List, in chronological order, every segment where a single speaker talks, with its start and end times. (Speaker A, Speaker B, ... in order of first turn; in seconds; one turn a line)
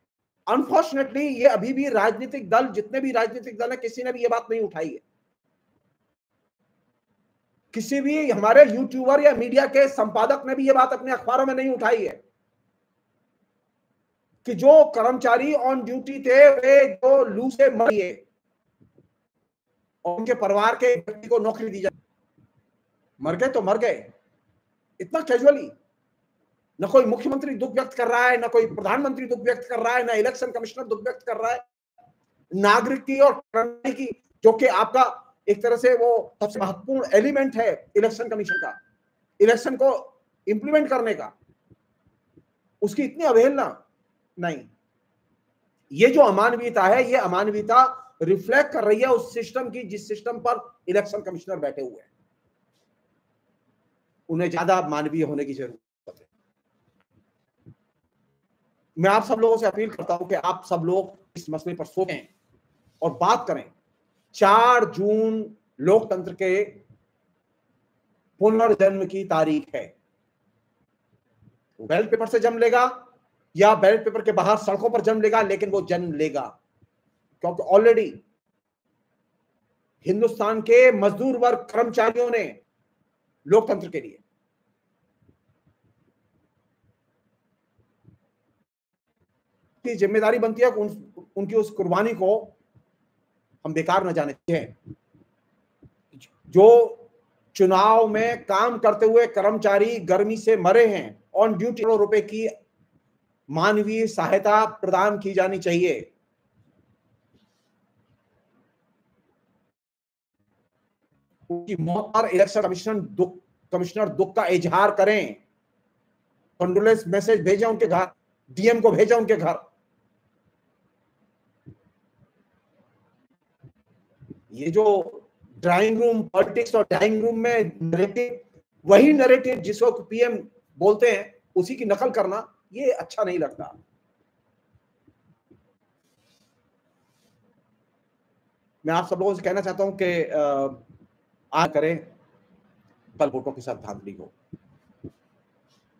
Speaker A: 0.5-5.0
Speaker A: 7.7-12.2
Speaker A: 14.4-18.2
Speaker A: 20.0-21.9
Speaker A: 23.2-24.1
Speaker A: 25.0-25.7
Speaker A: 26.8-31.6
Speaker A: 32.5-38.8
Speaker A: 39.4-41.3
Speaker A: 42.8-43.8
Speaker A: 44.4-44.7
Speaker A: 45.9-52.1
Speaker A: 54.3-56.2
Speaker A: 59.0-62.3
Speaker A: 63.0-63.7
Speaker A: 64.3-66.8
Speaker A: 68.4-69.9
Speaker A: 71.8-73.0
Speaker A: 73.5-76.5
Speaker A: 77.4-78.2
Speaker A: 80.0-82.6
Speaker A: 83.5-84.2
Speaker A: 89.8-92.5
Speaker A: 93.6-94.7
Speaker A: 96.4-102.5
Speaker A: 103.5-106.1
Speaker A: 111.5-115.4
Speaker A: 116.6-119.6
Speaker A: 124.5-133.8
Speaker A: 138.8-140.8
Speaker A: 141.5-142.1
Speaker A: 143.2-144.3